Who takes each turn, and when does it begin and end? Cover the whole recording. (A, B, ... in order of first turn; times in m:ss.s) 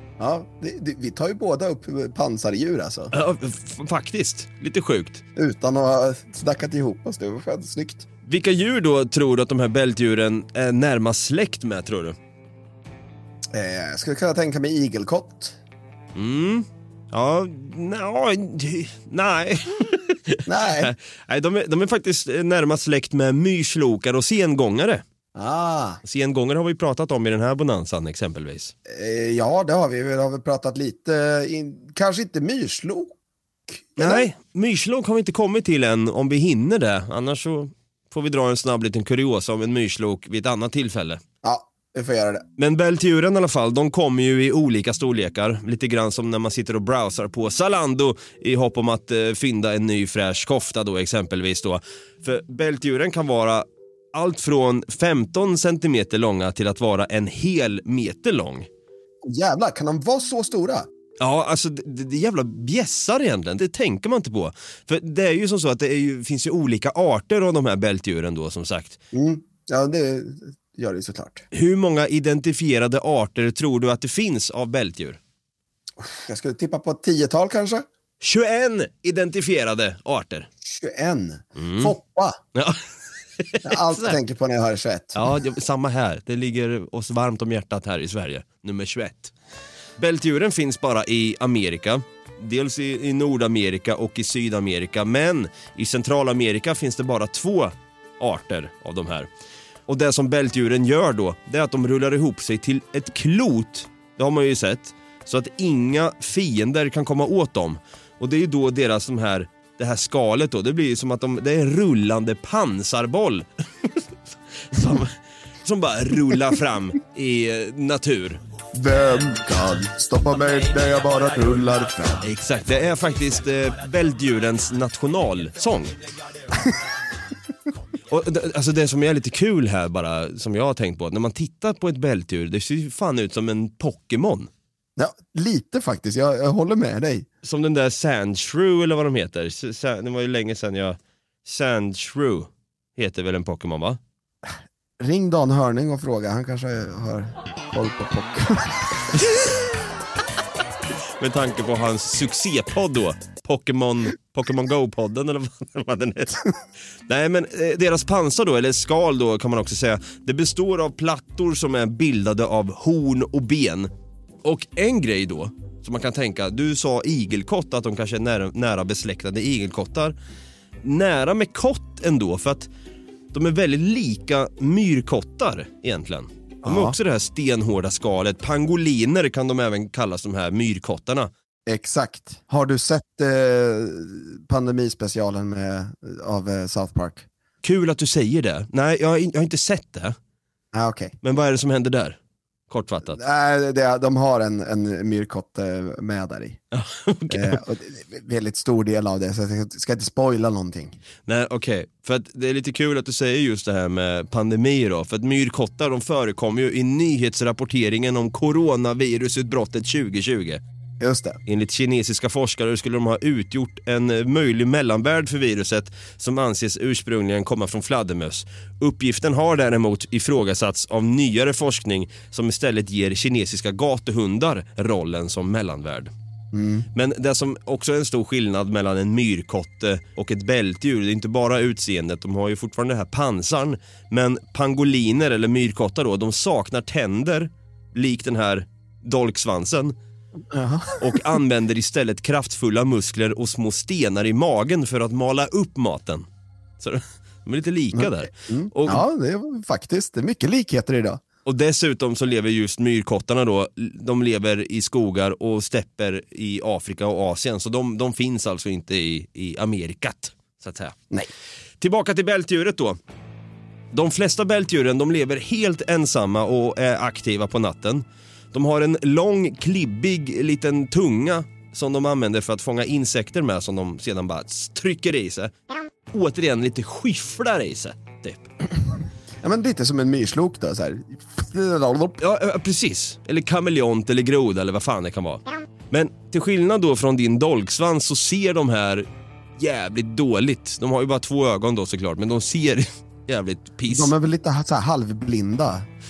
0:00.2-0:03.1 A
0:03.1-0:05.2 B
0:05.4-0:08.0 A
0:08.3-0:12.2 B
0:13.5-0:15.6 A
0:16.2-0:25.0 B
0:20.5-0:20.9 A
0:25.4-0:26.0 A
0:26.0-0:28.7 B
0:28.9-0:33.2 A
0:33.7-0:34.3 A
0:34.0-0:41.2 B
0:41.4-0:42.4 A
0:42.6-0:58.7 B
0:59.2-1:00.9 A
1:01.2-1:09.0 B
1:09.1-1:11.5 A
1:11.5-1:15.2 B
1:16.0-1:17.9 A
1:18.2-1:20.5 B
1:20.6-1:22.4 A
1:21.6-1:21.9 B
1:22.6-1:22.8 B
1:23.4-1:24.2 B
1:23.6-1:25.2 A
1:25.2-1:29.3 B
1:30.0-1:39.3 B
1:39.9-1:54.0 B
1:54.7-1:55.1 B
1:54.8-1:55.0 A
1:55.6-1:58.4 B
1:58.7-2:02.2 A
2:02.2-2:06.1 B
2:08.1-2:14.5 B
2:15.0-2:17.3 A
2:17.4-2:24.0 B
2:24.4-2:29.3 A
2:31.2-2:36.5 B
2:37.1-2:43.9 B
2:44.4-2:50.2 B
2:50.8-2:52.7 B
2:53.3-3:01.3 B
2:56.6-2:57.0 A
3:01.7-3:07.3 A
3:07.6-3:10.2 B
3:10.7-3:11.2 A
3:11.2-3:12.2 B
3:12.7-3:13.2 B
3:13.1-3:16.6 A
3:16.7-3:17.6 B
3:17.3-3:21.0 A
3:21.3-3:30.6 B
3:31.0-3:31.4 A
3:31.5-3:46.1 B
3:46.5-3:46.9 A
3:46.9-4:00.0 B
4:00.5-4:01.3 A
4:01.0-4:06.3 B
4:06.8-4:09.0 B
4:08.0-4:11.2 A
4:11.5-4:21.0 B
4:21.8-4:23.0 B
4:23.9-4:35.5 B
4:36.1-4:38.5 B
4:39.4-4:42.2 A
4:42.2-4:49.1 B
4:49.6-4:54.1 B
4:53.9-4:55.9 A